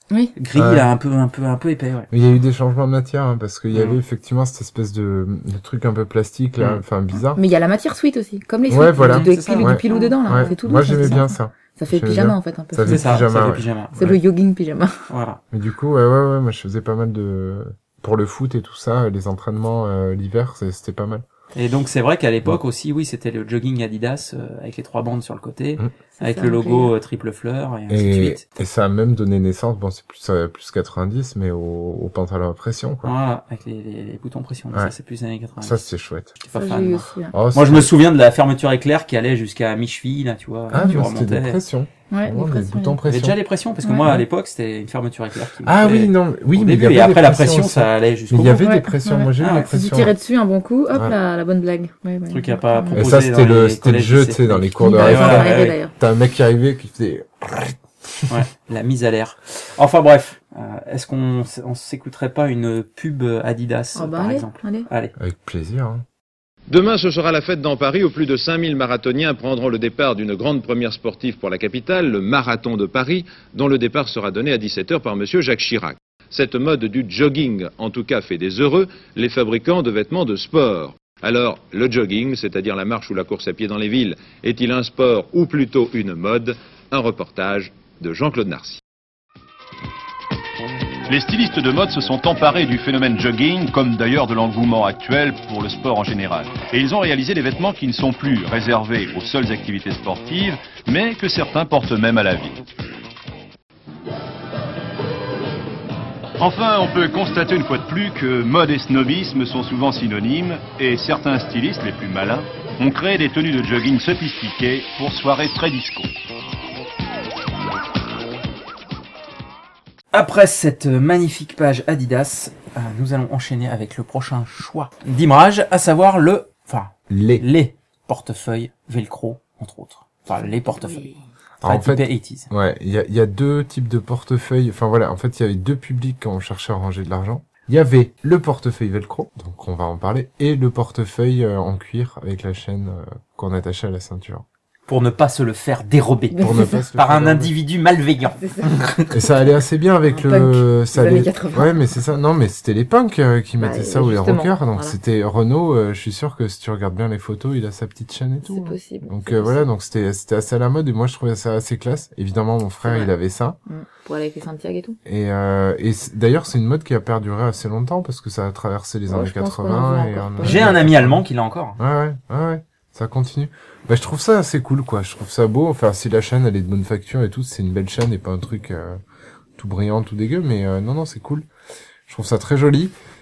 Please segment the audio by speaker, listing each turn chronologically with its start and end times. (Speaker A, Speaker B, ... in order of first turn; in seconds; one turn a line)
Speaker A: 0.4-2.1
Speaker B: 0.5-0.9
Speaker B: 2.1-7.4
Speaker A: 3.7-4.0
Speaker C: 7.3-13.2
Speaker B: 8.7-13.7
Speaker A: 9.0-11.2
Speaker A: 12.9-14.2
Speaker C: 14.0-15.0
Speaker A: 15.1-15.4
Speaker B: 15.5-21.2
Speaker A: 21.6-28.4
Speaker C: 26.2-26.9
Speaker B: 27.9-33.1
Speaker A: 33.0-35.8
Speaker B: 35.6-36.3
Speaker A: 36.4-41.6
Speaker C: 36.5-37.3
Speaker B: 37.3-37.9
Speaker B: 40.7-43.4
Speaker C: 42.1-43.0
Speaker A: 43.1-48.7
Speaker C: 43.8-44.2
Speaker B: 45.6-50.1
Speaker C: 48.6-53.0
Speaker A: 49.4-49.7
Speaker A: 52.3-55.8
Speaker B: 53.0-58.3
Speaker C: 54.8-55.9
Speaker A: 58.3-65.1
Speaker C: 64.0-64.9
Speaker B: 65.2-66.0
Speaker D: 66.7-88.8
Speaker E: 91.1-102.6
Speaker E: 106.4-116.1
Speaker A: 120.1-131.1
Speaker B: 127.1-127.5
Speaker B: 131.6-144.4
Speaker A: 131.6-132.5
Speaker A: 144.9-149.2
Speaker C: 146.3-146.8
Speaker B: 146.4-147.5
Speaker C: 148.4-148.7
Speaker B: 149.1-163.6
Speaker C: 150.1-151.8
Speaker C: 153.6-155.0
Speaker C: 158.4-159.7
Speaker C: 162.8-163.1
Speaker C: 163.7-165.0
Speaker B: 165.1-171.2
Speaker C: 169.1-170.9
Speaker A: 170.4-171.8
Speaker B: 171.8-179.0
Speaker B: 179.6-181.5
Speaker B: 182.1-183.0